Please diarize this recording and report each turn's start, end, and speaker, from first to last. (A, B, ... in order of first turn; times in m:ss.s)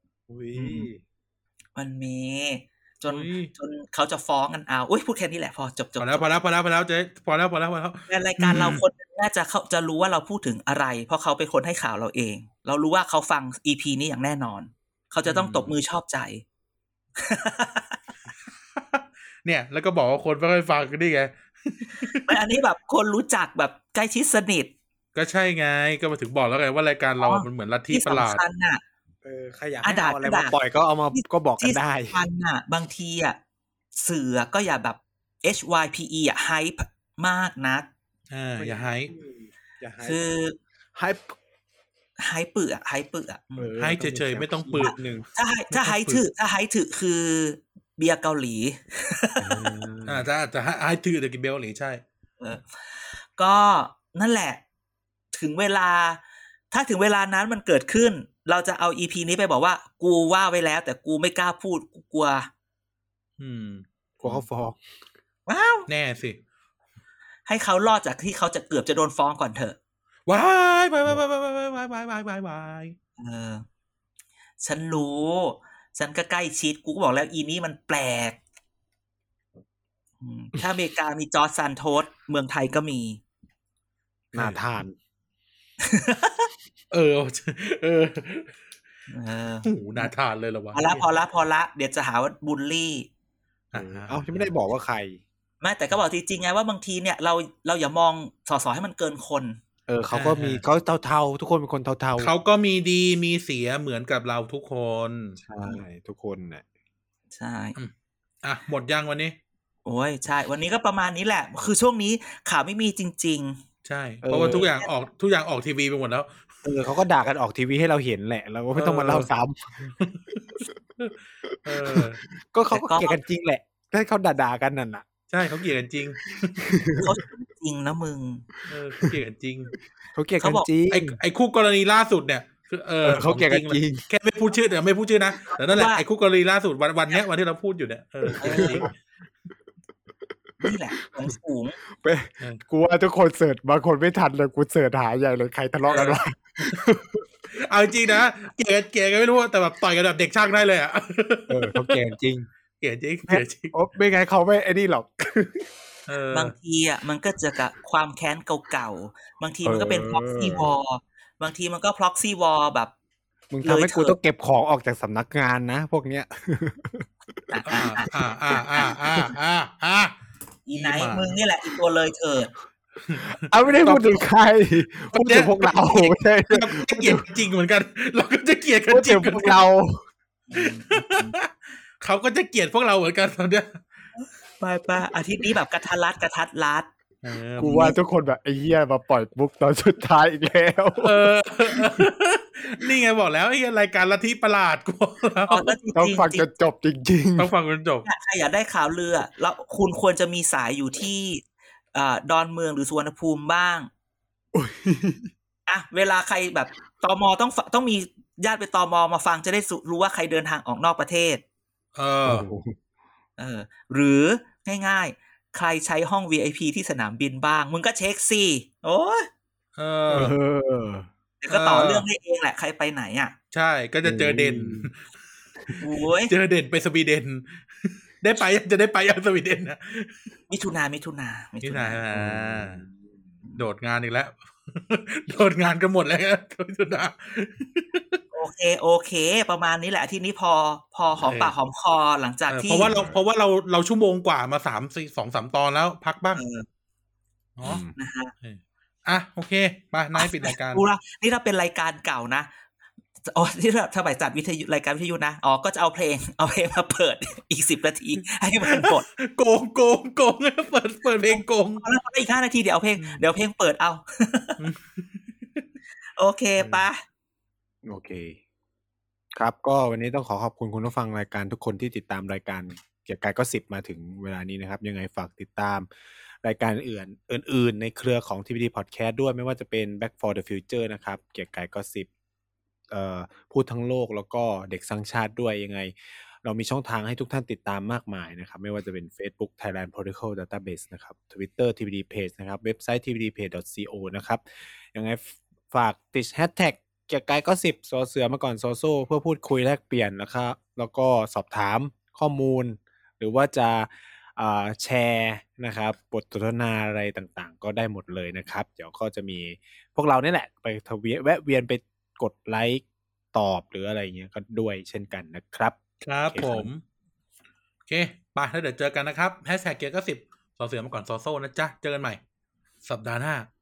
0:00.3-0:01.0 A
0:00.6-0:00.9 B
0:01.8-0:06.3 C
0:03.1-0:03.5 B
0:06.0-0:08.8 B
0:08.1-0:16.4 C
0:15.2-0:15.8 B
0:17.2-0:18.0 C
0:18.8-0:22.4 B
0:22.2-0:24.7 C
0:25.2-0:28.4 B
0:27.2-0:28.8 C
0:29.2-0:32.2 A
0:29.8-0:30.6 C
0:31.1-0:33.4 C
0:34.0-0:37.9 C
0:38.3-0:39.1 B
0:38.6-0:40.2 A
0:40.0-0:40.6 C
0:40.9-0:41.4 A
0:42.2-0:43.7 C
0:43.6-0:45.3 A
0:43.8-0:45.0 B
0:44.8-0:49.7 C
0:45.7-0:46.2 B
0:49.4-0:50.3 A
0:50.1-0:52.0 B
0:52.4-0:54.6 C
0:55.3-1:02.5 C
1:03.4-1:04.4 B
1:04.2-1:04.8 A
1:05.5-1:05.9 C
1:05.9-1:06.4 B
1:07.5-1:09.8 C
1:10.3-1:13.0 B
1:13.2-1:13.6 C
1:14.6-1:18.4 C
1:20.2-1:23.2 C
1:24.3-1:25.0 A
1:25.8-1:26.5 C
1:26.9-1:28.6 B
1:29.1-1:30.1 C
1:29.6-1:31.0 B
1:30.7-1:33.1 C
1:33.7-1:34.5 B
1:33.8-1:35.2 A
1:35.6-1:39.6 C
1:39.9-1:42.3 A
1:40.1-1:40.6 B
1:42.2-1:45.4 B
1:45.4-1:46.6 A
1:47.3-1:47.8 C
1:48.4-1:49.4 B
1:49.8-1:53.6 C
1:53.8-1:56.4 B
1:54.2-1:54.7 A
1:54.4-1:54.9 C
1:56.6-1:59.7 A
1:58.8-1:59.3 B
1:59.8-2:02.2 B
2:01.7-2:05.1 A
2:02.7-2:03.2 C
2:05.3-2:06.6 B
2:06.6-2:07.1 A
2:06.9-2:08.5 C
2:08.7-2:09.7 B
2:10.1-2:11.2 A
2:10.4-2:10.7 C
2:10.9-2:18.9 B
2:13.0-2:14.0 A
2:15.5-2:16.0 C
2:18.2-2:18.9 A
2:18.4-2:18.9 C
2:20.6-2:21.8 C
2:22.0-2:27.2 A
2:25.9-2:26.8 B
2:27.5-2:32.0 B
2:31.5-2:32.5 A
2:32.8-2:33.8 B
2:33.3-2:35.7 A
2:36.1-2:36.5 B
2:36.3-2:42.9 C
2:39.6-2:40.7 A
2:43.5-2:49.4 A
2:43.6-2:44.2 C
2:47.5-2:48.9 C
2:47.7-2:50.1 B
2:50.7-2:52.5 C
2:50.7-2:51.3 B
2:53.0-2:54.2 B
2:53.3-2:57.2 A
2:55.1-2:59.7 B
2:58.9-3:00.0 A
3:00.5-3:01.4 C
3:00.6-3:01.5 B
3:02.0-3:03.8 B
3:04.6-3:06.9 C
3:07.2-3:07.9 B
3:07.6-3:08.0 C
3:07.6-3:12.1 A
3:11.0-3:15.8 B
3:15.5-3:16.5 C
3:16.0-3:17.5 A
3:17.4-3:18.1 B
3:18.0-3:23.9 C
3:24.5-3:25.3 A
3:25.7-3:31.4 C
3:32.0-3:32.5 B
3:32.2-3:32.8 A
3:33.4-3:39.3 C
3:39.8-3:40.4 B
3:40.1-3:41.1 A
3:41.4-3:43.4 C
3:41.5-3:42.1 B
3:43.5-3:45.0 B
3:44.0-3:44.9 A
3:45.8-3:46.3 C
3:46.3-3:50.1 B
3:50.5-3:52.0 C
3:51.6-3:52.8 B
3:52.1-3:53.0 A
3:53.6-3:58.2 B
3:58.3-4:02.9 C
4:01.2-4:01.5 B
4:02.5-4:06.4 B
4:02.9-4:03.2 A
4:06.4-4:06.7 C
4:07.6-4:07.8 B
4:07.6-4:07.9 A
4:08.0-4:08.3 C
4:08.4-4:10.8 B
4:10.2-4:12.5 C
4:13.3-4:19.1 C
4:18.7-4:21.8 B
4:21.3-4:24.6 C
4:24.6-4:25.6 B
4:26.2-4:27.0 C
4:27.8-4:28.4 A
4:29.4-4:35.9 A
4:36.4-4:42.1 A
4:42.9-5:15.8 A
5:16.0-5:16.8 B
5:16.3-5:16.7 A
5:17.9-5:22.2 B
5:22.8-5:23.5 B